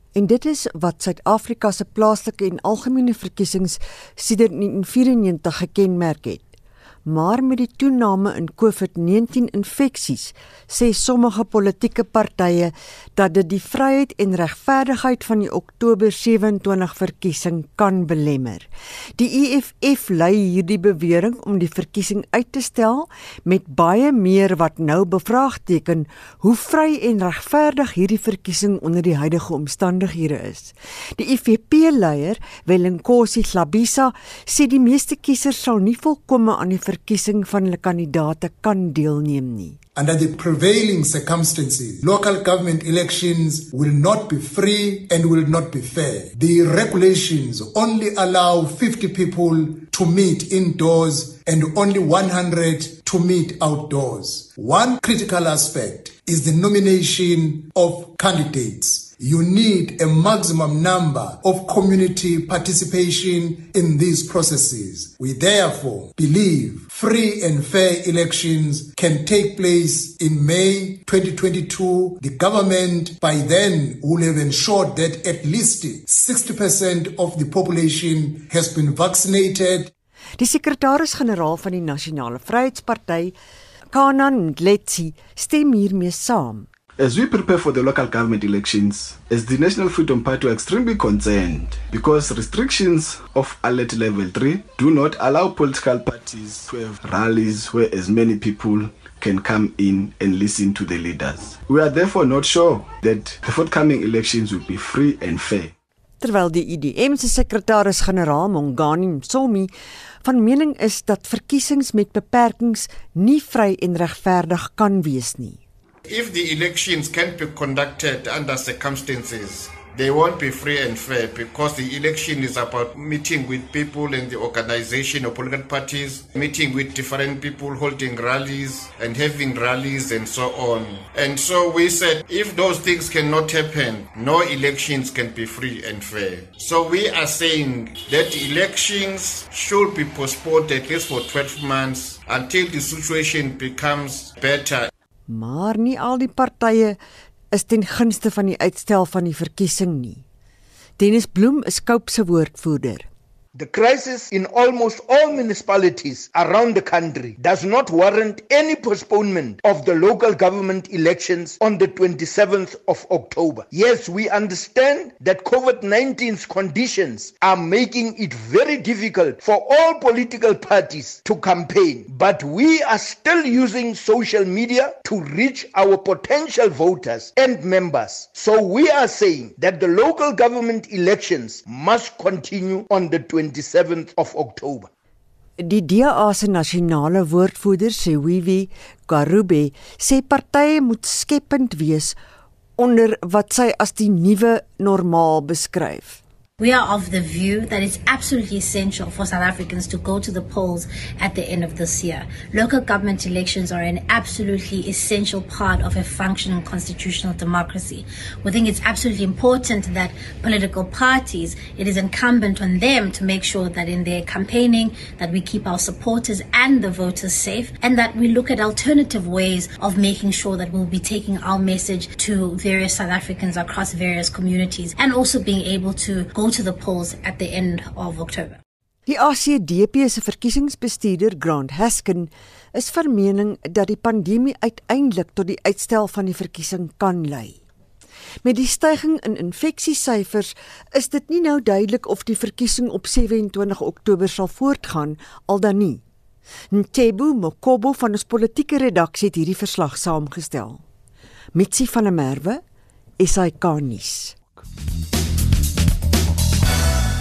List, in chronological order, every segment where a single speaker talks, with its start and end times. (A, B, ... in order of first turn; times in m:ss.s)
0:00.1-0:06.5 A
0:07.0-0:39.8 A
0:40.0-1:19.9 B
1:20.4-1:23.3 A
1:23.9-1:26.7 A
1:27.0-1:45.7 C
1:46.2-1:49.7 A
1:50.2-1:55.6 A
1:56.1-2:24.9 D
2:25.3-2:27.0 A
2:27.5-2:30.2 A
2:31.0-2:33.0 A
2:33.5-3:04.9 E
3:05.6-3:12.2 A
3:12.8-3:16.2 A
3:16.6-3:48.6 F
3:49.1-3:57.6 A
3:58.4-4:06.0 A
4:06.7-4:10.8 A
4:11.5-4:12.6 A
4:13.2-4:14.3 A